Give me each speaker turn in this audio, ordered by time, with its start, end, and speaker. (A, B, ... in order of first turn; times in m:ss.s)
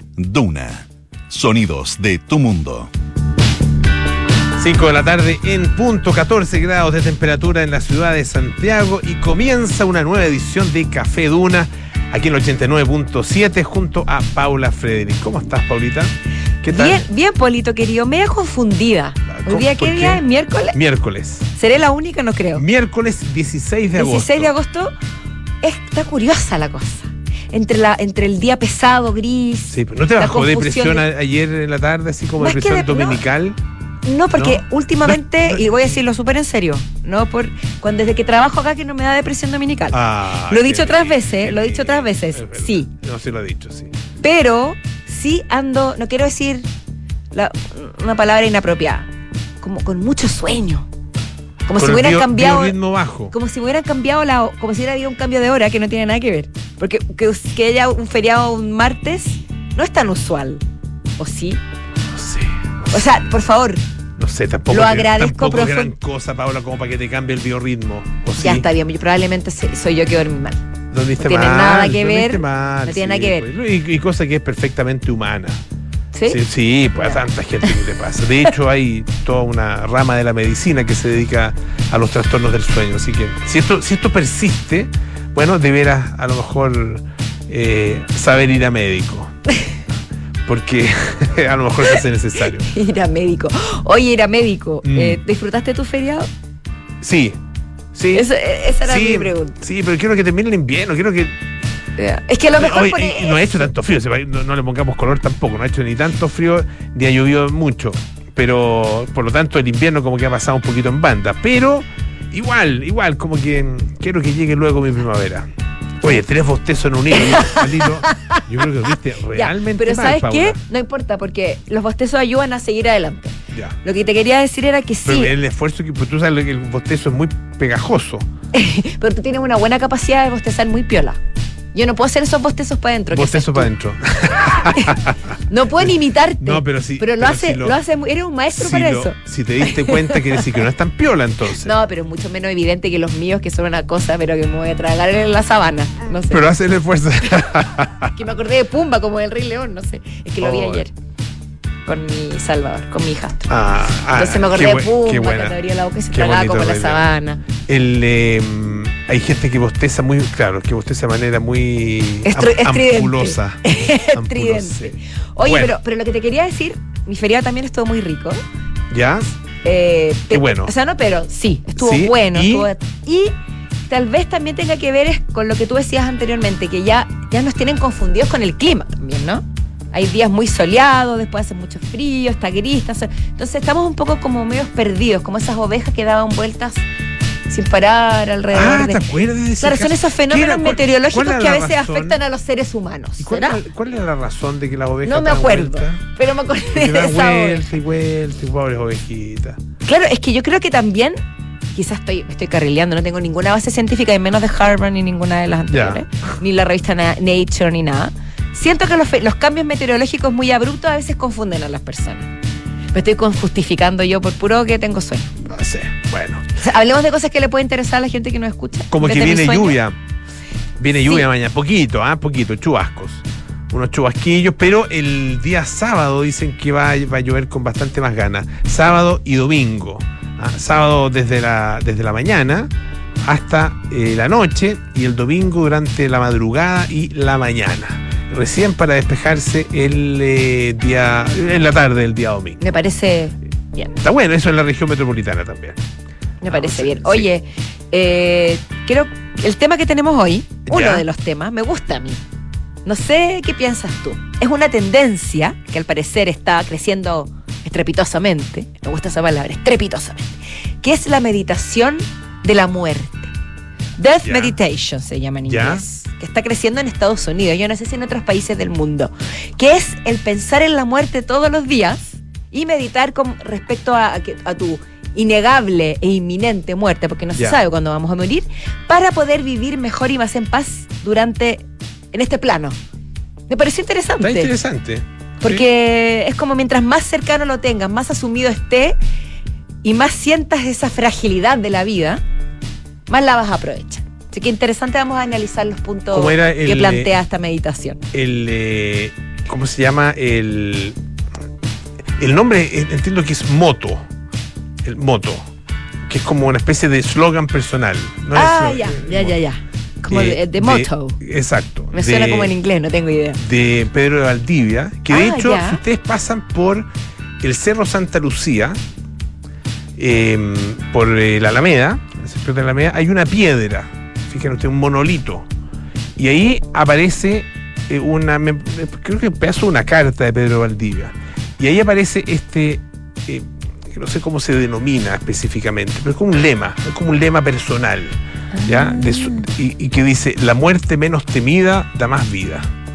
0:00.2-0:02.9 A
0:04.6-0:17.0 B
0:16.7-0:20.8 C
0:19.3-0:21.5 B
0:21.6-0:22.6 C
0:22.5-0:24.5 B
0:24.0-0:24.9 C
0:25.6-0:31.0 C
0:29.7-0:33.6 B
0:32.4-0:33.2 C
0:34.0-0:42.9 C
0:34.3-0:35.8 B
0:39.9-0:43.9 B
0:44.2-0:46.6 C
0:47.3-0:49.1 C
0:49.6-0:50.9 C
0:51.7-0:52.8 C
0:51.8-0:53.3 B
0:53.3-1:00.6 C
1:01.2-1:01.6 C
1:02.1-1:03.1 B
1:02.9-1:03.8 C
1:04.2-1:08.6 B
1:04.7-1:05.9 C
1:08.4-1:10.6 C
1:10.9-1:15.6 B
1:11.2-1:13.5 C
1:16.1-1:16.4 C
1:16.3-1:29.3 B
1:17.0-1:17.2 C
1:30.4-1:32.7 B
1:32.6-1:36.3 C
1:34.8-1:35.2 B
1:37.0-1:37.4 B
1:37.9-1:38.3 B
1:38.1-1:39.5 C
1:38.8-1:41.4 B
1:42.0-1:43.7 C
1:42.5-1:55.5 B
1:56.0-2:00.6 B
1:57.2-1:58.4 C
1:59.3-2:05.3 C
2:05.0-2:08.3 B
2:08.5-2:11.2 C
2:11.7-2:13.7 C
2:13.1-2:15.2 B
2:14.5-2:20.5 C
2:16.4-2:17.8 B
2:18.6-2:21.7 B
2:21.6-2:26.5 C
2:26.3-2:28.1 B
2:28.1-2:30.9 C
2:30.4-2:30.8 B
2:31.8-2:33.5 C
2:33.5-2:35.6 B
2:34.1-2:37.4 C
2:36.1-2:37.0 B
2:37.6-2:45.8 B
2:42.2-2:48.4 C
2:48.9-2:49.3 B
2:49.6-2:53.3 C
2:50.3-2:50.7 B
2:51.7-2:52.7 B
2:53.9-3:06.8 C
3:07.5-3:09.1 C
3:08.5-3:12.2 B
3:09.6-3:13.6 C
3:13.2-3:16.0 B
3:15.0-3:17.7 C
3:16.7-3:19.6 B
3:19.8-3:21.2 C
3:21.7-3:32.3 C
3:25.7-3:26.0 B
3:32.9-3:35.4 C
3:35.5-3:36.5 B
3:36.6-3:39.8 C
3:38.9-3:40.0 B
3:40.8-3:52.7 B
3:40.9-3:41.3 C
3:53.2-4:02.6 B
4:02.6-4:03.9 C
4:04.0-4:05.8 B
4:06.4-4:12.2 C
4:06.4-4:07.3 B
4:10.7-4:11.0 B
4:12.8-4:23.3 C
4:24.0-4:42.7 C
4:24.2-4:24.6 B
4:25.5-4:25.8 B
4:43.5-4:44.5 C
4:44.2-4:45.6 B
4:45.4-4:49.0 C
4:49.8-4:52.2 C
4:53.1-4:58.0 C
4:56.1-4:57.1 B
4:58.1-5:01.0 B
5:02.2-5:04.0 B
5:04.8-5:05.5 B
5:06.1-5:09.4 B
5:08.3-5:11.2 C
5:10.1-5:12.5 B
5:11.9-5:13.4 C
5:13.4-5:16.9 B
5:15.1-5:15.8 C
5:17.4-5:18.8 B
5:20.0-5:25.5 B
5:26.2-5:42.7 B
5:38.5-5:39.4 C